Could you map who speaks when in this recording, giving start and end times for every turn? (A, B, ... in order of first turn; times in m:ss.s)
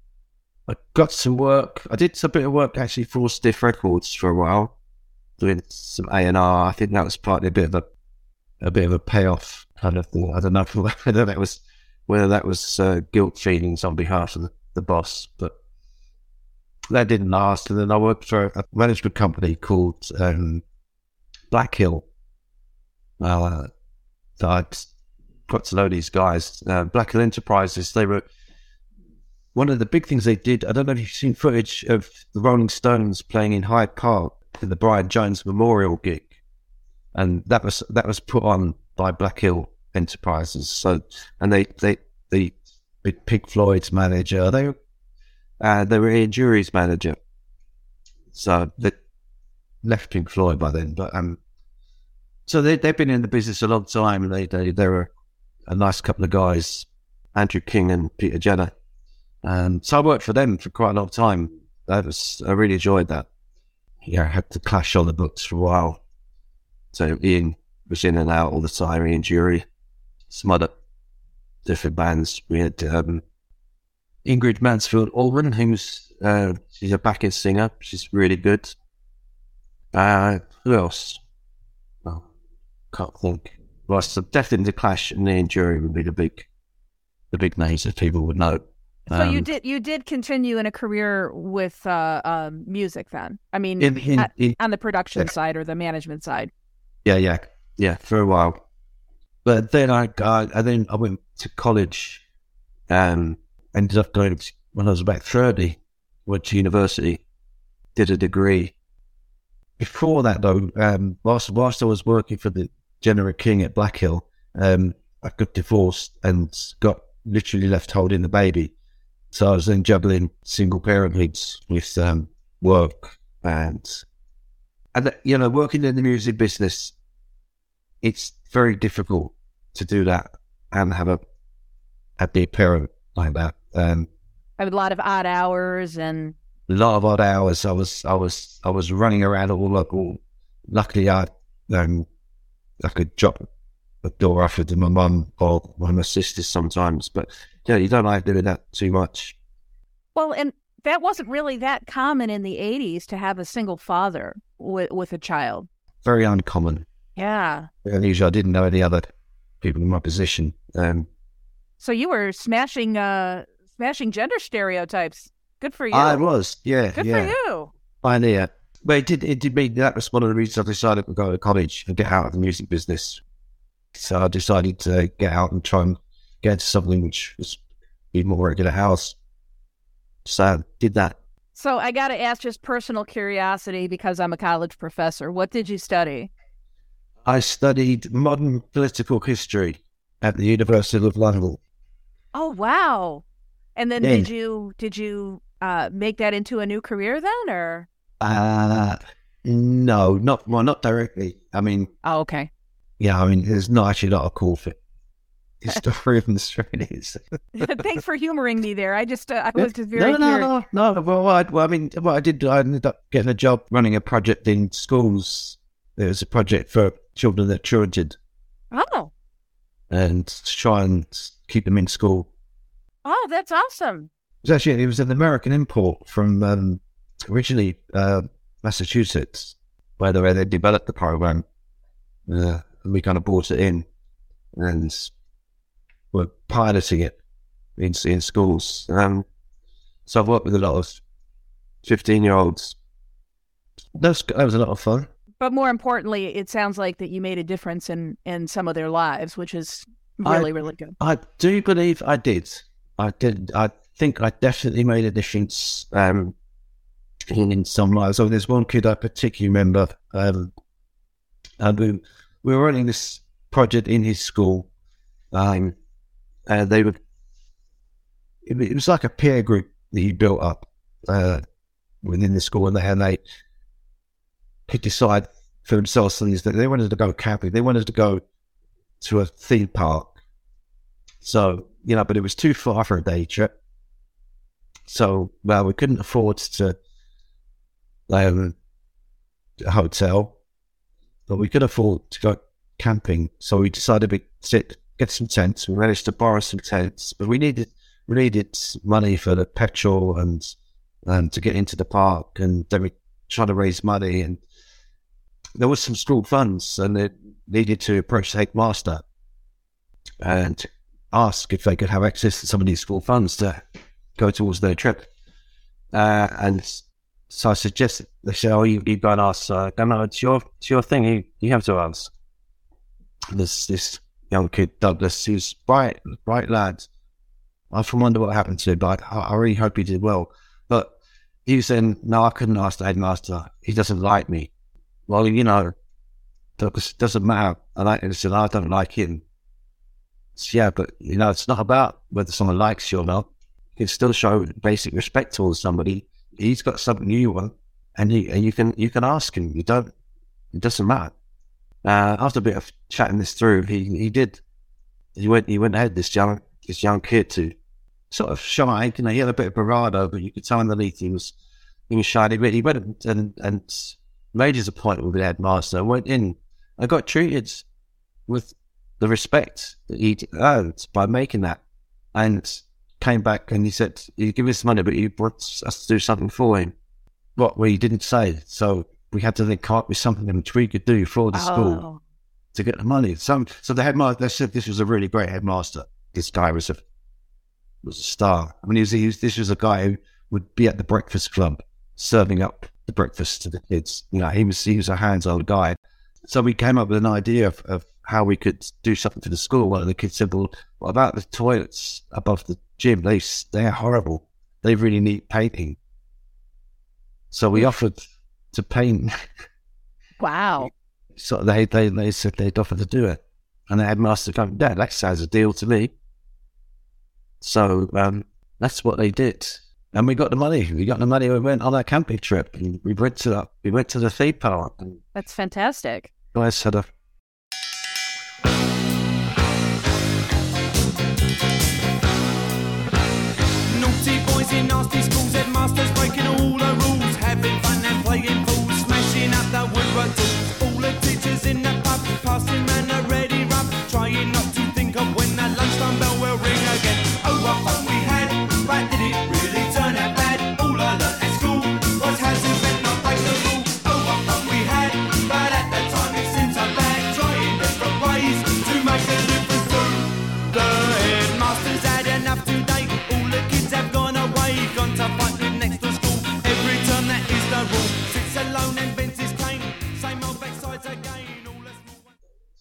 0:00.7-0:04.7 A
0:05.4-0:07.9 A
0:08.6-0:15.6 A
0:16.9-0:20.6 A
0:21.5-0:22.1 A
0:23.2-0:23.7 A
0:24.4-0:24.9 A
0:25.5-0:28.3 A
0:29.5-0:36.4 A
0:37.1-0:44.8 A
0:45.6-0:47.2 A
0:48.3-0:49.0 A
0:49.8-0:51.4 A
0:52.4-0:55.1 A
0:55.7-0:58.7 A
0:59.4-1:03.3 A
1:04.0-1:06.0 A
1:06.9-1:09.7 A
1:10.3-1:10.7 A
1:11.6-1:13.2 A
1:14.2-1:18.8 A
1:19.9-1:21.2 A
1:22.9-1:26.5 A
1:27.3-1:29.5 A
1:29.1-1:36.5 B
1:33.8-1:34.6 A
1:37.0-1:38.6 A
1:39.4-1:42.2 A
1:42.9-1:47.2 A
1:48.0-1:48.7 A
1:49.8-1:58.7 A
1:59.3-2:04.0 A
2:04.9-2:06.9 A
2:08.0-2:11.2 A
2:12.2-2:14.1 A
2:14.6-2:16.4 B
2:16.7-2:22.1 A
2:22.8-2:23.4 A
2:24.0-2:29.4 A
2:30.1-2:35.7 B
2:36.0-2:36.9 A
2:37.2-2:37.7 B
2:37.8-2:39.1 A
2:39.6-2:41.1 A
2:41.8-2:46.2 B
2:45.9-2:47.4 A
2:46.9-2:47.7 B
2:48.0-2:53.2 A
2:53.9-2:57.6 A
2:58.1-2:59.2 A
3:00.2-3:01.2 A
3:01.6-3:06.3 B
3:07.2-3:11.6 A
3:12.3-3:13.2 B
3:13.8-3:17.9 B
3:14.0-3:14.3 A
3:18.2-3:21.9 A
3:22.0-3:22.5 B
3:23.0-3:24.8 A
3:25.6-3:27.2 A
3:27.6-3:30.5 B
3:29.6-3:38.2 A
3:38.7-3:39.1 B
3:39.9-3:42.3 A
3:43.0-3:44.1 B
3:44.4-3:51.4 A
3:52.3-3:53.9 A
3:54.5-3:55.1 A
3:56.1-3:57.2 A
3:57.8-3:59.3 A
4:00.1-4:01.0 A
4:01.8-4:02.8 A
4:04.0-4:05.1 A
4:05.4-4:11.0 B
4:10.2-4:16.4 A
4:17.3-4:20.5 A
4:21.6-4:24.7 A
4:25.3-4:25.8 A
4:26.5-4:27.0 A
4:28.4-4:31.4 A
4:32.0-4:33.2 A
4:34.7-4:38.2 A
4:39.0-4:40.1 A
4:41.2-4:43.5 A
4:44.9-4:46.8 A
4:48.1-4:48.6 A
4:49.6-4:50.4 A
4:51.3-5:00.6 A
5:01.1-5:04.4 A
5:05.6-5:09.0 A
5:10.2-5:13.6 A
5:14.2-5:15.1 A
5:15.9-5:22.1 A
5:23.3-5:26.9 A
5:27.7-5:30.9 A
5:31.4-5:34.5 A
5:35.1-5:35.8 A
5:36.6-5:39.2 A
5:40.4-5:49.9 A
5:50.5-5:51.1 A
5:51.8-5:54.4 A
5:55.2-5:57.6 A
5:58.1-6:01.3 A
6:01.9-6:07.6 A
6:08.3-6:11.6 A
6:12.1-6:16.7 A
6:17.4-6:21.8 A
6:21.3-6:22.0 B
6:22.5-6:26.8 A
6:27.8-6:45.8 A
6:47.3-6:48.0 A
6:48.5-6:49.1 A
6:50.2-6:50.7 B
6:51.2-6:55.9 A
6:57.4-7:05.0 A
7:05.1-7:06.1 B
7:06.3-7:06.9 A
7:13.7-7:52.1 C